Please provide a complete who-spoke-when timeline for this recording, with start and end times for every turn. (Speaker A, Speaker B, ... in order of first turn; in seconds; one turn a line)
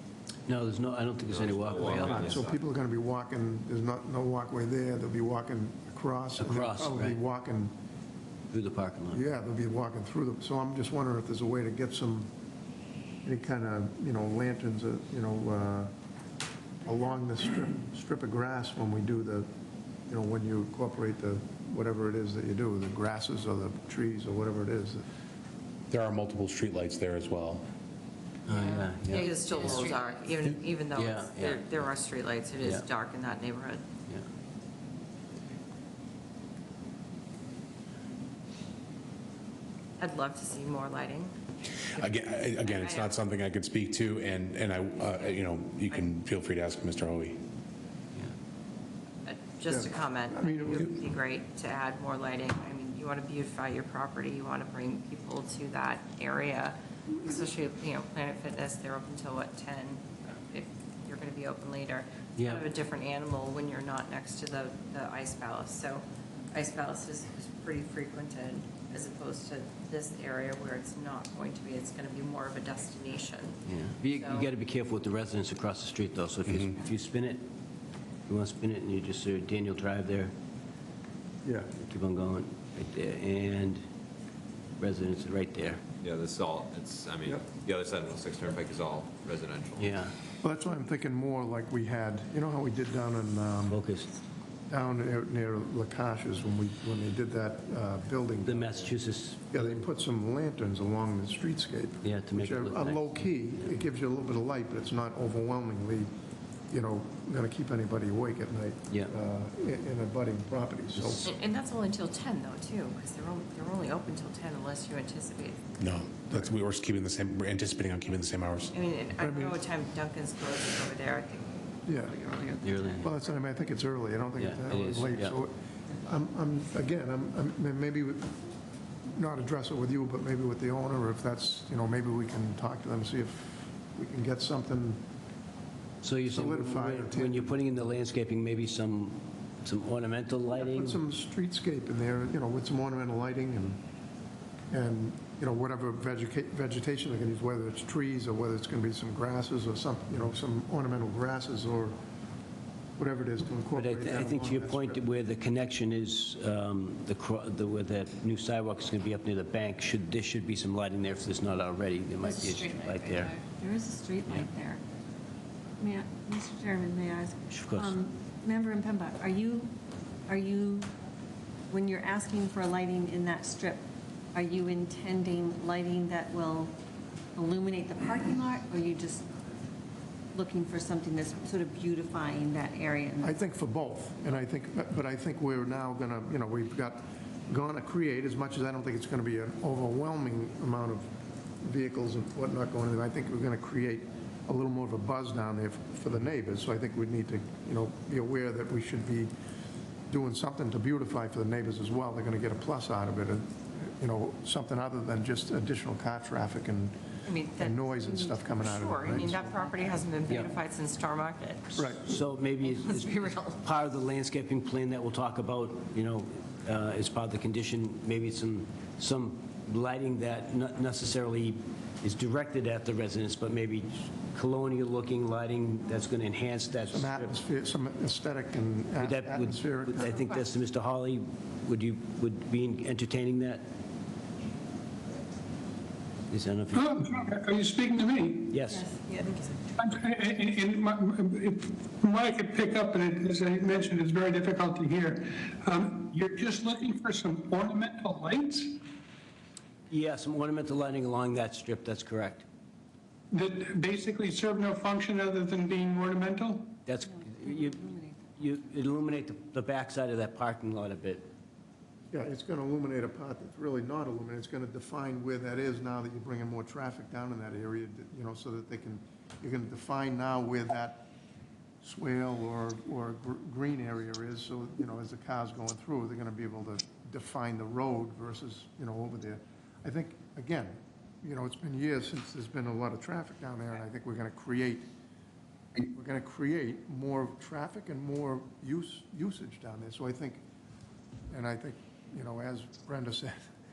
Speaker A: 0.5-2.4
Speaker B: 1.3-2.6
Speaker C: 2.1-7.7
Speaker A: 6.3-7.2
Speaker A: 8.5-9.2
Speaker C: 9.1-12.3
Speaker C: 13.2-15.9
Speaker C: 16.8-19.5
Speaker C: 20.1-25.0
Speaker D: 25.9-27.6
Speaker A: 28.4-29.9
Speaker E: 28.5-33.8
Speaker A: 30.9-31.8
Speaker E: 40.0-41.3
Speaker D: 41.9-47.4
Speaker E: 42.6-43.1
Speaker E: 49.2-73.6
Speaker C: 49.7-50.9
Speaker A: 62.4-62.6
Speaker A: 73.7-77.4
Speaker E: 74.1-74.5
Speaker A: 78.3-80.3
Speaker C: 81.4-81.7
Speaker A: 81.8-83.8
Speaker A: 84.8-85.8
Speaker B: 86.0-89.9
Speaker A: 89.8-90.1
Speaker C: 90.4-93.8
Speaker A: 93.7-94.1
Speaker C: 94.7-98.8
Speaker A: 98.4-99.9
Speaker C: 99.5-106.1
Speaker A: 102.0-103.2
Speaker C: 106.7-111.3
Speaker A: 110.9-111.2
Speaker E: 111.2-115.7
Speaker D: 115.8-118.7
Speaker E: 118.7-123.0
Speaker C: 119.2-119.6
Speaker C: 121.8-122.2
Speaker A: 122.6-123.1
Speaker C: 123.0-128.3
Speaker A: 124.3-125.4
Speaker C: 129.1-135.0
Speaker A: 136.0-141.0
Speaker C: 136.3-137.5
Speaker C: 140.5-143.8
Speaker C: 144.7-152.0
Speaker C: 153.0-155.0
Speaker A: 153.7-163.3
Speaker F: 162.2-164.8
Speaker F: 165.8-170.9
Speaker A: 167.5-168.0
Speaker F: 171.7-176.8
Speaker F: 177.3-179.3
Speaker F: 180.3-183.4
Speaker C: 183.2-199.3
Speaker C: 200.1-207.0
Speaker E: 207.2-211.8
Speaker C: 207.6-209.4
Speaker F: 209.2-209.9
Speaker A: 210.3-210.6
Speaker C: 211.7-212.0
Speaker A: 211.8-227.3
Speaker E: 212.6-213.6
Speaker C: 226.9-230.2
Speaker A: 229.0-233.6
Speaker A: 236.3-237.0
Speaker G: 236.7-238.6
Speaker A: 238.5-238.9
Speaker F: 238.7-239.7
Speaker G: 239.8-248.8
Speaker A: 249.9-252.4
Speaker G: 253.3-256.8
Speaker A: 256.9-261.3
Speaker F: 257.1-258.3
Speaker C: 262.1-271.1
Speaker C: 271.8-284.9
Speaker C: 285.9-290.4
Speaker C: 291.3-293.5